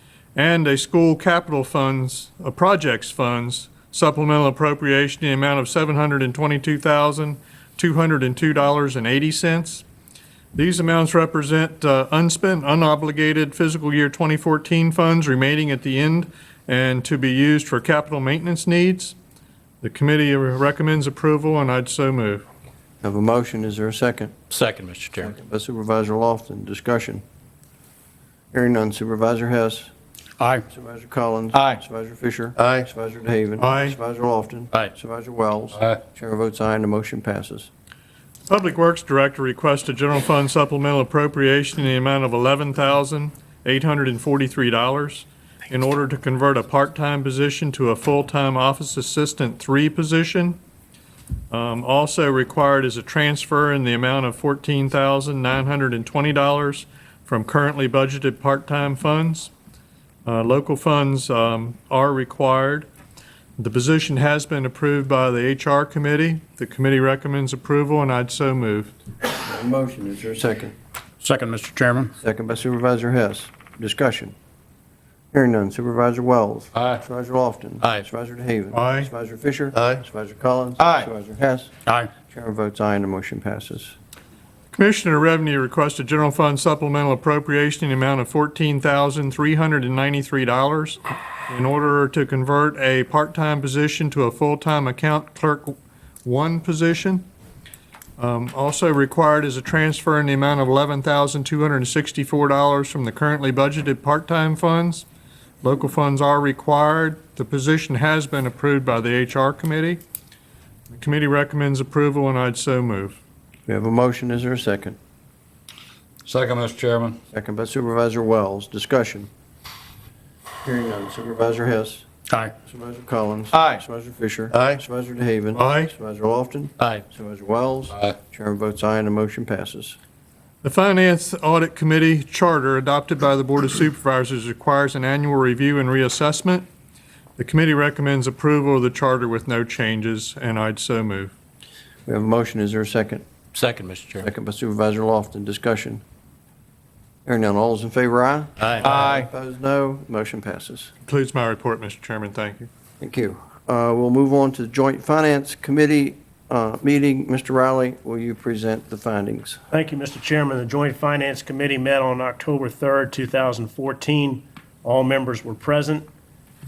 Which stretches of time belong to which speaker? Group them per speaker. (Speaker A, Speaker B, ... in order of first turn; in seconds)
Speaker A: 0.3-9.8, 10.5-19.1, 19.8-22.4, 33.6-34.0, 38.5-50.6, 51.5-59.5, 60.2-62.9, 63.6-68.9, 78.7-79.1, 84.7-97.2, 98.2-105.0, 105.6-110.0, 110.9-113.2, 125.5-125.9, 130.6-136.7, 137.4-141.3, 151.1-152.7
Speaker B: 23.0-24.3, 25.2-27.2, 28.5-29.9, 30.7-37.7, 69.4-70.7, 72.2-74.3, 75.3-81.7, 82.2-84.0, 113.7-115.0, 117.3-119.3, 120.6-122.0, 122.6-130.0, 142.1-143.2, 144.2-146.0, 147.2-150.9, 153.0-159.6
Speaker C: 24.5-25.3, 30.4-30.6, 31.5-31.8, 71.2-72.1, 76.7-77.0, 80.8-81.1, 81.8-82.1, 116.2-117.2, 122.3-122.5, 123.5-123.8, 143.5-144.3, 148.6-149.3
Speaker D: 159.7-166.1